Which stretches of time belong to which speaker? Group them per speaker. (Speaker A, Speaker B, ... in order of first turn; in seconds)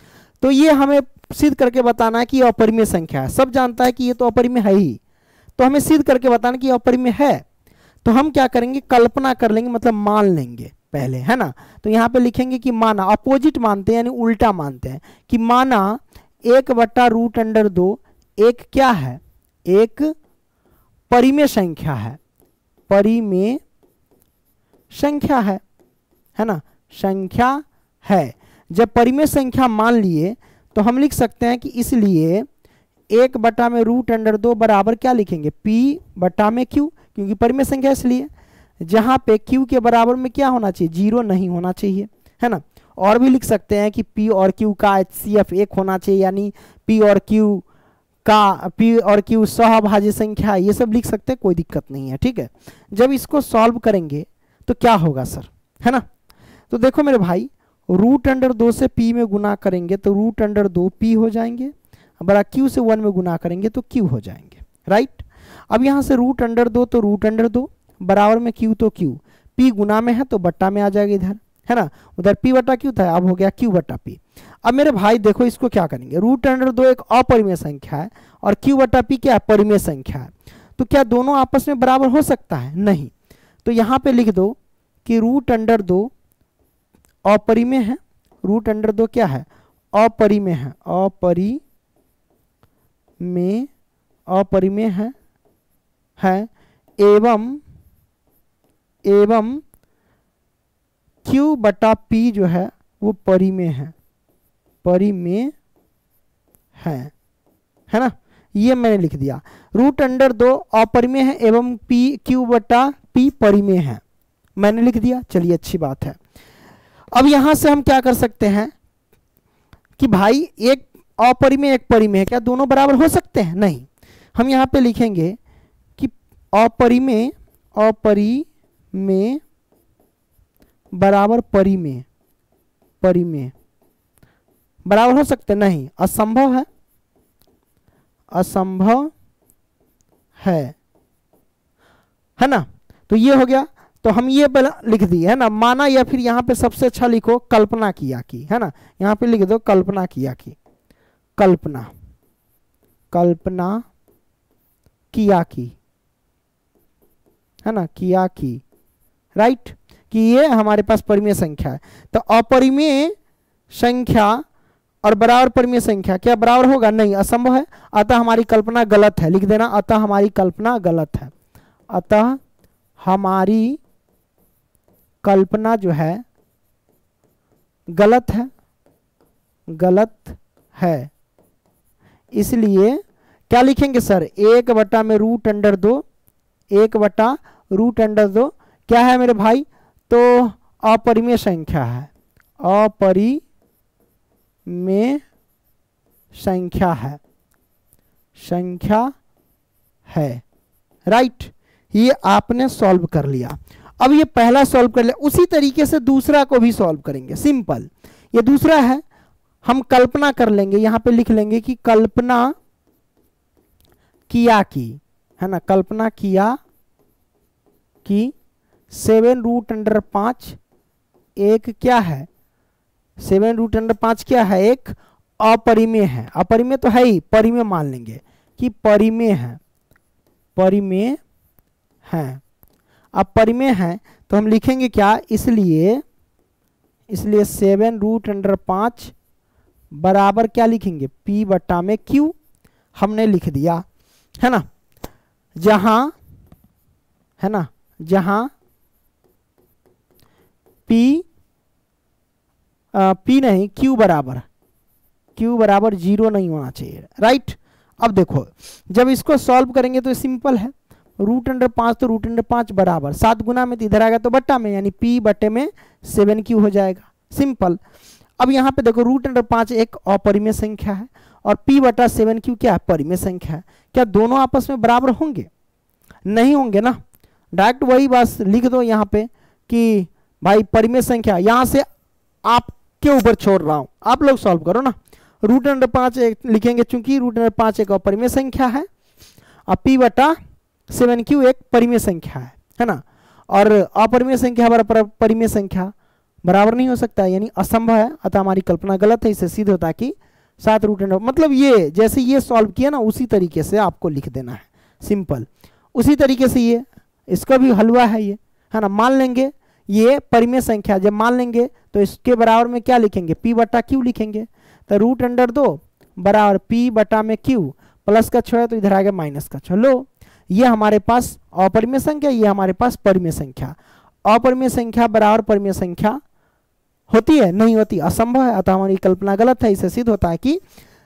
Speaker A: 0.4-5.0, 5.6-7.4, 8.0-20.1, 21.1-22.2, 22.9-23.6, 24.9-25.6, 26.4-32.5, 33.1-38.3, 38.8-47.6, 48.2-56.0, 56.7-83.1, 83.6-86.1, 87.3-91.6, 93.2-93.7, 94.3-95.1, 96.2-96.5, 97.0-97.6, 99.1-99.6, 101.2-103.9, 104.8-105.5, 106.8-107.1, 107.9-114.0, 114.6-116.2, 117.1-118.7, 120.0-125.4, 126.0-129.4, 130.9-132.1, 133.0-133.5, 134.9-136.7, 138.3-139.1, 140.4-140.8, 142.4-150.6, 151.4-151.9, 153.1-153.9, 155.1-155.8, 157.6-158.6, 159.3-163.2, 163.7-164.4, 165.0-171.3, 171.9-172.4, 173.0-173.8, 175.2-176.2, 177.9-178.5, 179.8-181.1, 182.3-186.0, 186.7-192.1, 192.6-193.4, 194.7-195.2, 196.3-197.2, 198.4-199.1, 200.1-200.4, 201.1-209.0, 209.6-212.5, 214.3-216.6, 218.1-218.3, 218.9-220.6, 221.4-222.3, 223.2-229.6, 230.6-231.2, 232.1-232.4, 233.2-236.0, 237.1-239.1, 239.9-242.3, 242.9-243.8, 245.6-246.2, 247.4-248.5, 250.9-251.2, 252.9-254.4, 255.4-267.8, 268.4-275.5, 276.3-277.0, 277.6-281.9, 282.4-288.9, 289.7-290.4, 290.9-295.9, 296.4-326.2, 327.1-330.6